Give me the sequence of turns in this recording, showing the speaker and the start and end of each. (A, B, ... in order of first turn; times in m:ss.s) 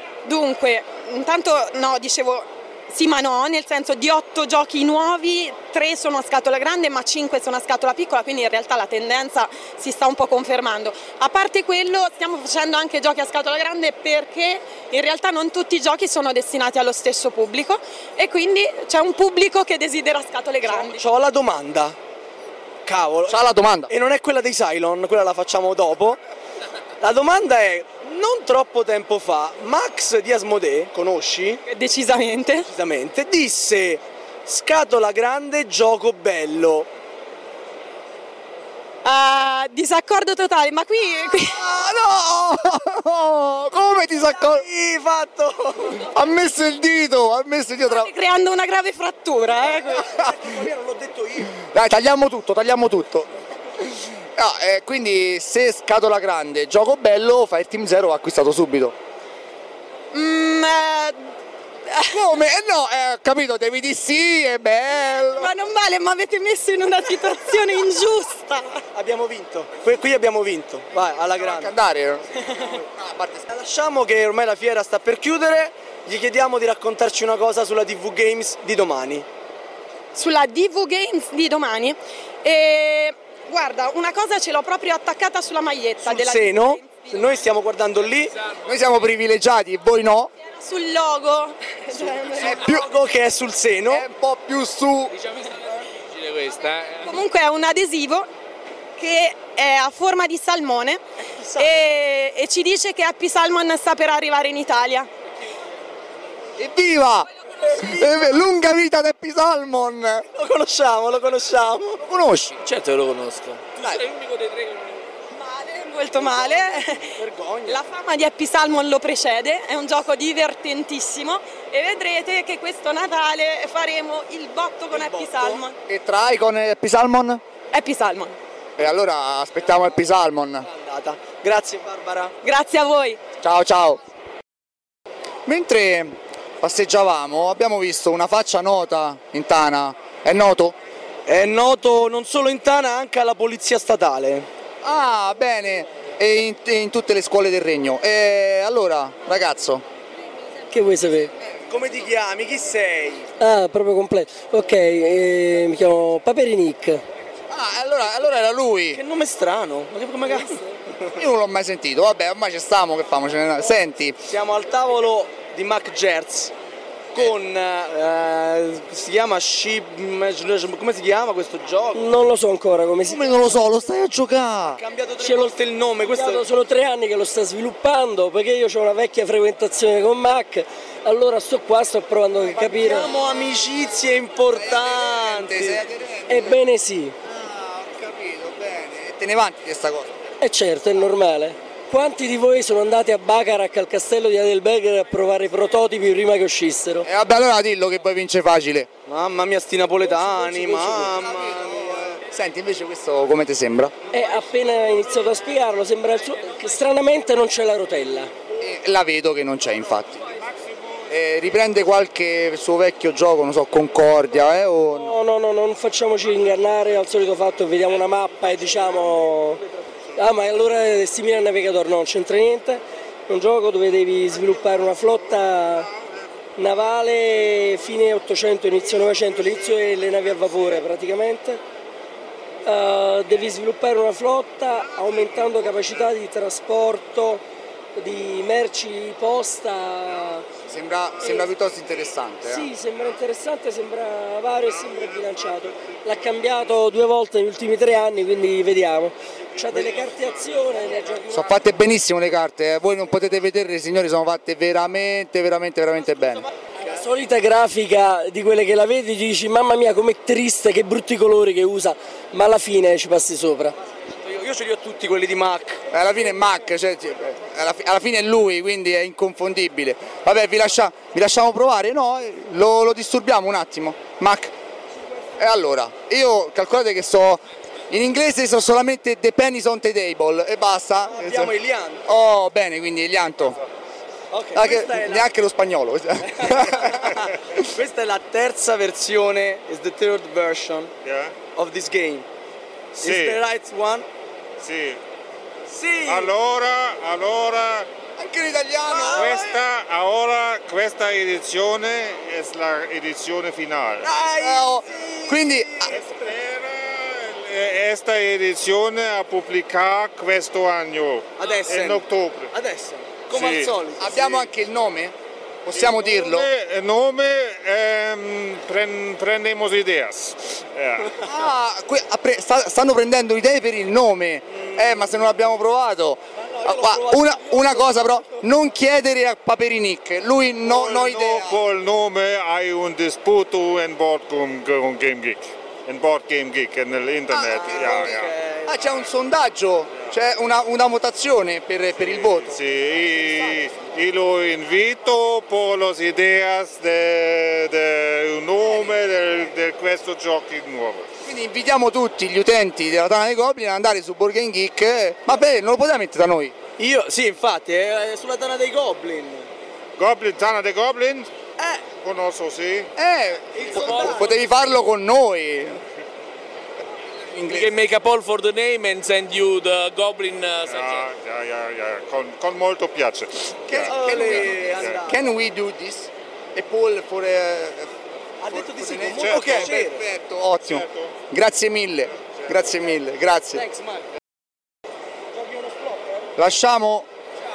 0:00.2-0:21.0 A
0:20.6-0:22.0 B
0:22.8-0:23.4 B
0:23.3-0:23.9 C
0:23.9-0:26.2 B
0:27.0-0:31.6 B
0:31.6-0:32.7 A
0:32.6-0:36.9 B
0:39.0-0:41.6 A
0:41.3-0:44.6 C
0:44.2-0:46.0 B
0:46.1-0:48.1 C
0:47.8-0:50.0 A
0:49.9-0:51.5 B
0:51.6-0:53.3 C
0:53.8-0:58.9 C
1:00.1-1:01.3 A
1:02.1-1:05.5 C
1:05.0-1:08.8 A
1:08.9-1:11.7 B
1:11.3-1:13.4 C
1:13.5-1:19.2 B
1:20.1-1:27.4 A
1:26.0-1:28.3 B
1:28.6-1:30.3 C
1:30.5-1:32.6 A
1:32.1-1:34.0 B
1:32.4-1:32.8 C
1:33.9-1:35.1 C
1:35.1-1:37.2 D
1:37.0-1:38.3 A
1:39.0-1:41.0 A
1:41.4-1:41.8 B
1:41.6-1:45.1 A
1:46.6-1:50.2 C
1:50.3-1:52.0 B
1:52.0-1:52.6 C
1:52.6-1:55.0 D
1:55.3-1:57.1 A
1:56.2-1:57.8 B
1:57.7-2:05.8 A
2:04.9-2:05.6 B
2:05.9-2:07.4 C
2:07.7-2:08.3 A
2:08.8-2:10.6 C
2:10.6-2:12.3 B
2:12.4-2:13.2 A
2:13.4-2:14.0 C
2:15.4-2:20.8 C
2:21.2-2:24.5 B
2:24.8-2:29.8 C
2:30.7-2:31.3 E
2:31.7-2:33.3 B
2:33.4-2:37.0 E
2:37.5-2:39.0 C
2:38.9-2:40.6 B
2:41.2-2:44.2 C
2:44.3-2:46.5 B
2:47.1-2:52.1 B
2:51.9-2:53.2 E
2:53.0-2:54.8 C
2:54.8-2:56.4 B
2:55.2-3:03.1 E
3:02.5-3:05.8 B
3:04.5-3:06.6 C
3:06.3-3:07.1 E
3:07.2-3:10.1 C
3:10.4-3:17.1 E
3:17.0-3:18.9 C
3:19.1-3:22.1 B
3:20.5-3:23.9 C
3:24.1-3:28.3 E
3:28.6-3:30.3 C
3:31.1-3:35.2 C
3:34.9-3:39.6 E
3:40.2-3:45.9 E
3:46.6-3:51.6 E
3:52.6-3:57.4 E
3:58.0-4:00.4 E
4:00.7-4:02.7 C
4:02.4-4:11.6 E
4:11.3-4:16.4 C
4:16.8-4:23.7 E
4:24.2-4:25.8 B
4:25.9-4:34.5 C
4:35.4-4:41.5 C
4:41.1-4:42.0 B
4:42.0-4:43.6 C
4:44.3-4:45.3 B
4:44.5-4:47.1 C
4:46.2-4:50.9 B
4:51.0-4:51.3 F
4:51.5-4:52.2 B
4:52.9-4:54.0 B
4:53.0-4:53.4 F
4:54.6-4:55.0 F
4:55.7-4:56.3 B
4:56.1-4:57.9 F
4:58.2-4:59.4 C
4:58.9-4:59.5 B
4:59.1-5:04.1 F
5:04.0-5:06.0 B
5:04.4-5:05.9 C
5:05.9-5:12.5 F
5:11.4-5:14.4 B
5:13.3-5:13.8 F
5:14.0-5:16.5 C
5:15.7-5:21.2 F
5:21.2-5:31.6 C
5:24.5-5:25.0 B
5:26.4-5:28.4 B
5:30.6-5:38.3 F
5:37.3-5:43.6 C
5:37.6-5:39.0 B
5:42.0-5:51.1 F
5:51.2-5:56.5 C
5:56.8-5:59.5 B
6:00.0-6:01.3 F
6:02.0-6:02.9 F
6:03.0-6:05.8 C
6:03.5-6:04.4 B
6:03.8-6:04.2 D
6:07.2-6:07.7 C
6:07.5-6:11.1 D
6:10.6-6:15.0 F
6:13.7-6:17.9 C
6:13.7-6:15.2 B
6:18.4-6:20.0 B
6:18.5-6:23.6 C
6:19.1-6:19.8 F
6:20.6-6:21.1 F
6:23.5-6:24.0 B
6:25.6-6:25.9 B
6:26.4-6:27.1 C